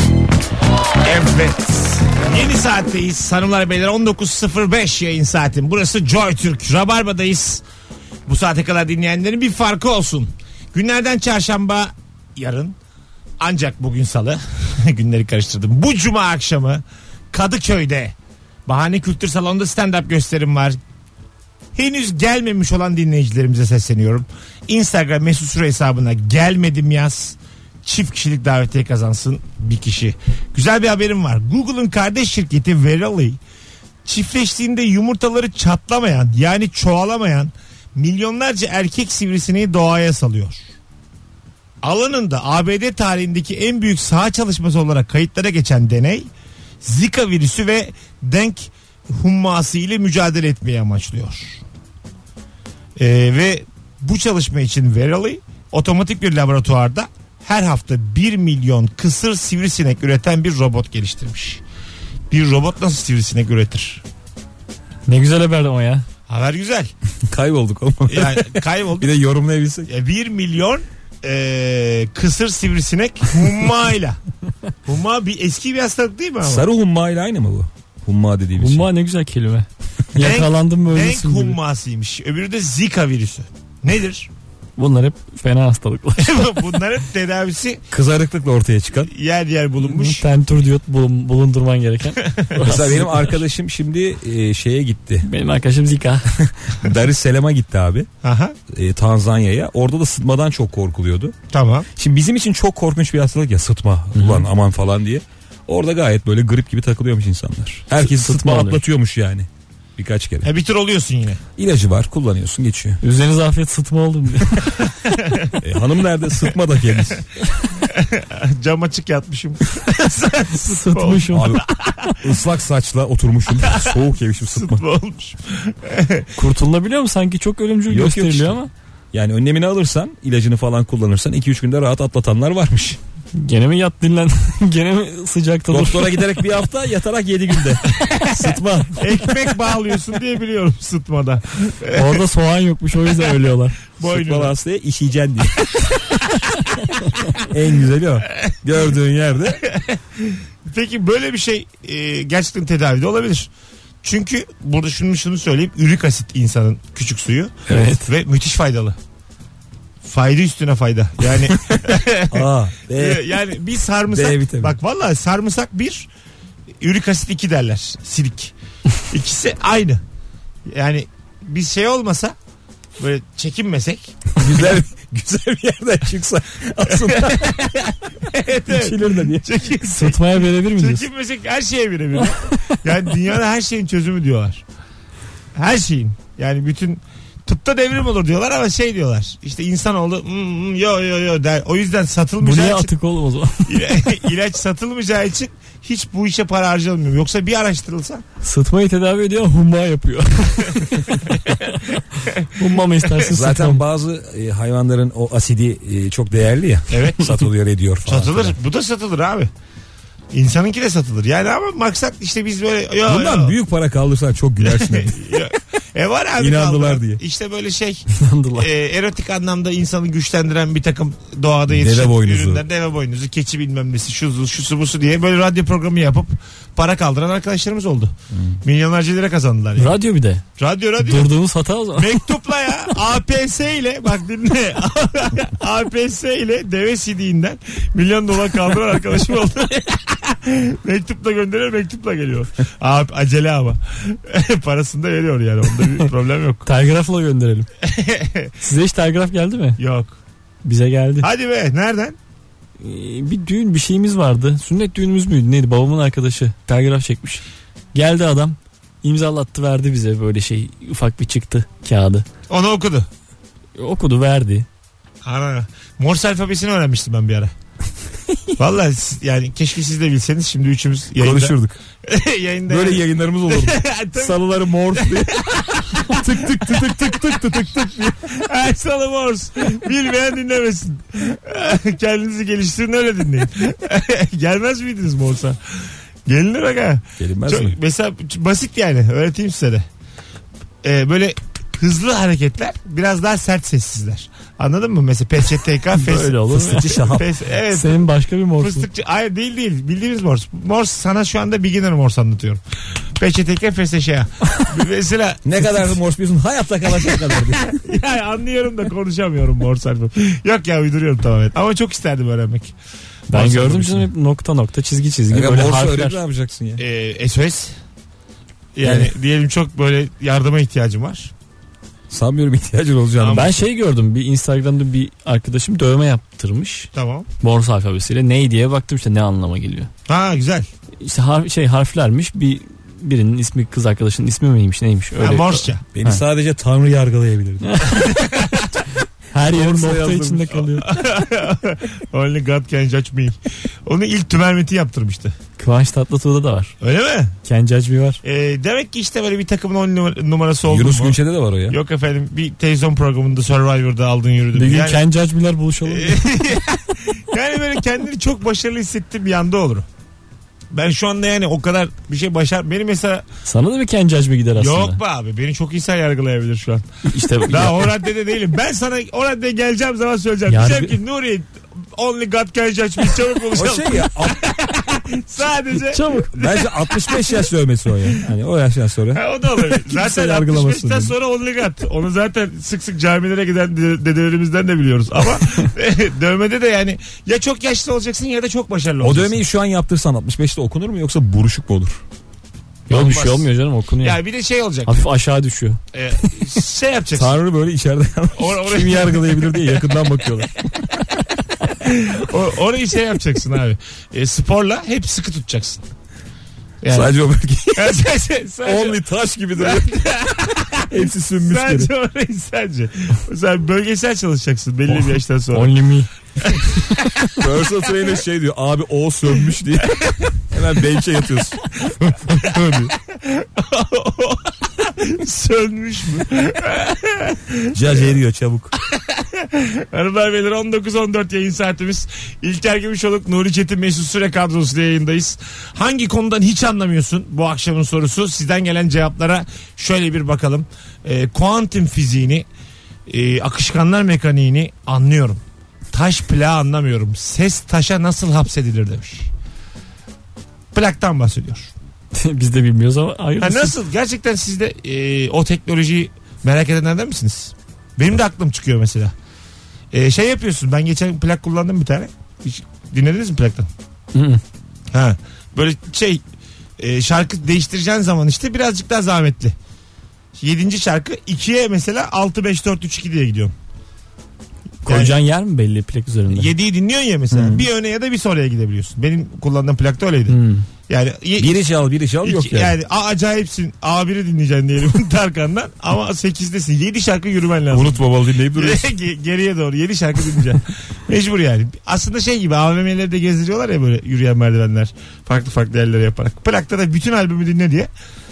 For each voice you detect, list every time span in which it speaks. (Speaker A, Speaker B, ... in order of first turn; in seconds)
Speaker A: 1.0-7.6, 8.2-12.7, 13.4-18.1, 18.7-20.8, 21.7-33.4, 34.0-40.6, 41.8-46.3, 46.8-51.6, 53.0-61.6, 62.3-64.0, 66.3-66.9, 68.1-69.1, 69.8-74.2, 74.8-76.7, 80.2-84.3, 86.2-87.8, 89.0-90.2, 92.2-92.6, 98.2-98.5, 101.5-101.9, 110.4-111.4, 115.0-115.6, 117.8-122.2, 123.6-126.3, 139.0-142.2, 144.0-144.5, 149.6-153.5, 154.0-158.9, 160.0-166.1, 166.8-170.0, 170.7-172.3, 173.0-174.7, 176.8-184.6, 185.5-192.9, 193.7-198.2, 206.9-207.4, 208.1-209.5, 210.3-213.5, 214.6-218.1, 218.6-228.1, 228.6-229.9, 230.6-231.3, 231.9-246.7, 247.8-248.5, 249.8-250.2, 251.2-252.2, 262.5-263.1, 265.2-267.5, 268.6-274.4, 274.9-289.8, 290.8-296.4, 296.9-302.6, 303.2-306.0, 306.9-312.7, 316.8-317.7, 318.8-321.3, 323.2-323.6, 326.9-327.3, 330.1-330.7, 335.2-335.8, 340.8-345.3, 346.8-347.3, 348.2-351.2, 351.7-355.0, 355.8-359.9, 360.7-363.2, 364.6-366.8, 367.5-377.5, 379.1-389.4, 392.9-393.5, 394.0-395.0, 395.9-397.3, 398.4-399.4, 401.8-405.8, 406.8-407.1, 407.7-409.0, 409.6-415.7, 419.8-420.3, 421.8-428.1, 428.8-442.4, 443.1-445.4, 445.9-449.3, 450.7-451.7, 453.4-459.1, 459.9-463.7, 464.9-466.2, 466.8-469.5, 470.4-473.5, 474.9-475.1, 476.3-481.6, 482.2-497.9
Speaker B: 65.1-66.0, 78.5-81.6, 84.8-86.6, 89.8-93.4, 95.2-96.4, 104.1-104.5, 108.0-108.8, 113.0-114.8, 120.5-121.5, 126.3-128.7, 133.3-136.4, 141.9-143.8, 157.7-158.1, 179.8-181.1, 182.3-182.8, 192.4-193.8, 198.4-203.8, 218.1-218.7, 229.8-230.4, 231.0-232.2, 246.7-247.7, 248.6-249.8, 250.6-251.3, 252.8-257.4, 257.9-262.2, 263.7-264.7, 295.9-297.1, 297.7-298.9, 313.3-316.2, 318.8-319.1, 323.3-326.9, 327.4-329.9, 331.0-336.2, 337.6-340.9, 345.6-346.7, 347.4-348.2, 354.5-356.2, 363.4-365.0, 367.1-367.9, 370.5-370.9, 375.7-376.3, 392.9-394.2, 394.9-396.4, 414.9-417.3, 452.1-453.7, 464.1-464.4, 474.8-476.5, 477.3-477.6, 480.3-480.7
Speaker C: 67.2-69.9, 76.4-78.9, 87.9-89.1, 92.6-95.3, 96.3-98.1, 98.7-101.3, 102.0-110.5, 111.6-113.0, 115.6-117.2, 121.3-124.8, 127.9-128.6, 129.1-133.0, 135.7-139.3, 144.0-145.7, 147.4-149.6, 161.7-163.4, 164.1-164.8, 174.4-177.9, 178.7-179.4, 203.3-208.6, 213.0-215.1, 216.4-217.2, 221.7-222.6, 228.3-228.6, 271.2-271.8, 272.7-275.4, 275.9-278.1, 287.2-287.8, 296.5-297.3, 305.4-307.8, 313.3-314.1, 315.3-316.8, 322.1-323.5, 335.9-337.8, 339.4-340.6, 350.7-351.8, 373.5-374.4, 376.3-381.1, 389.0-392.0, 397.1-400.6, 406.9-408.0, 408.6-410.1, 410.9-411.9, 417.3-422.9, 427.7-428.7, 481.4-482.8, 487.7-488.9